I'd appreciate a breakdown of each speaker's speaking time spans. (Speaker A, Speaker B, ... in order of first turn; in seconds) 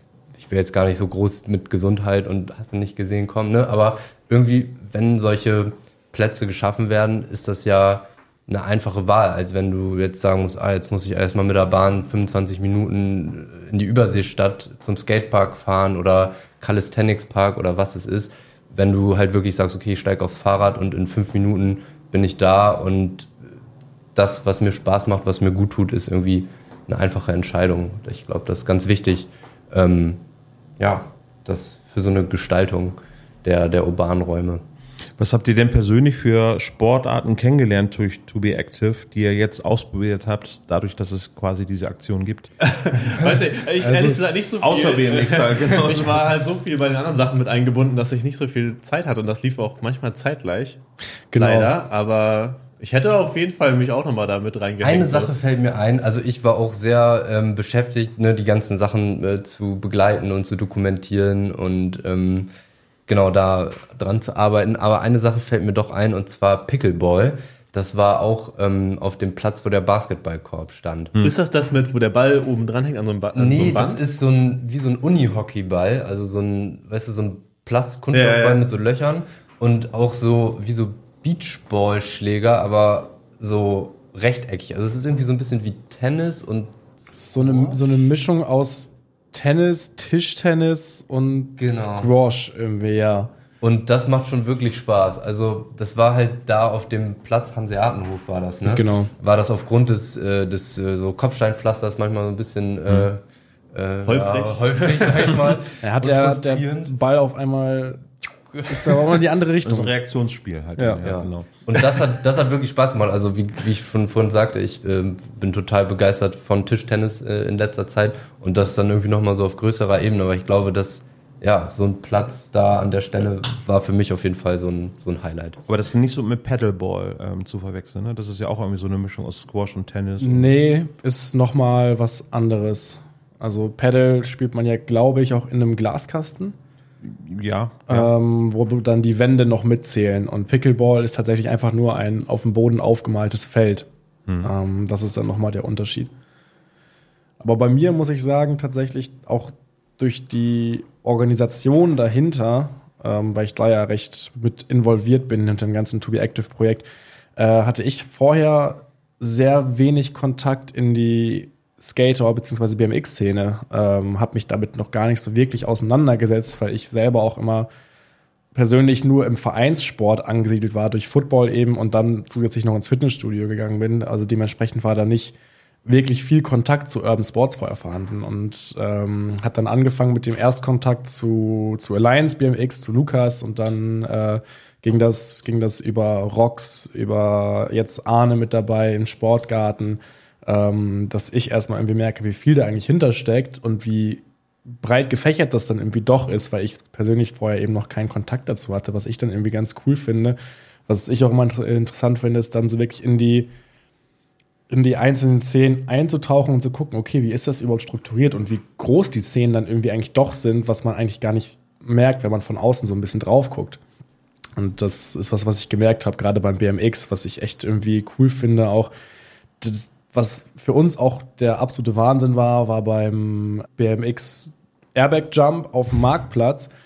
Speaker A: 0.3-23.3, 24.1-30.2, 30.8-34.6, 54.8-62.5, 63.1-71.1, 73.3-86.8, 87.3-87.8, 91.6-92.1, 93.6-106.9, 108.5-109.0, 111.0-125.6
Speaker B: 35.2-42.5, 44.6-46.3, 109.6-111.5, 125.7-130.5, 137.0-138.1
Speaker C: 42.6-50.8, 51.4-55.3, 71.2-74.0, 78.1-78.6, 104.0-105.6
Speaker D: 43.1-44.2, 51.3-51.7, 87.1-93.3, 98.6-99.1, 105.8-108.0, 108.7-109.9, 110.8-111.0, 130.2-136.6, 137.9-143.9, 144.4-146.1, 147.4-167.7, 168.5-194.2, 194.8-200.4, 200.9-203.5, 204.7-213.8, 214.6-218.9, 219.6-226.7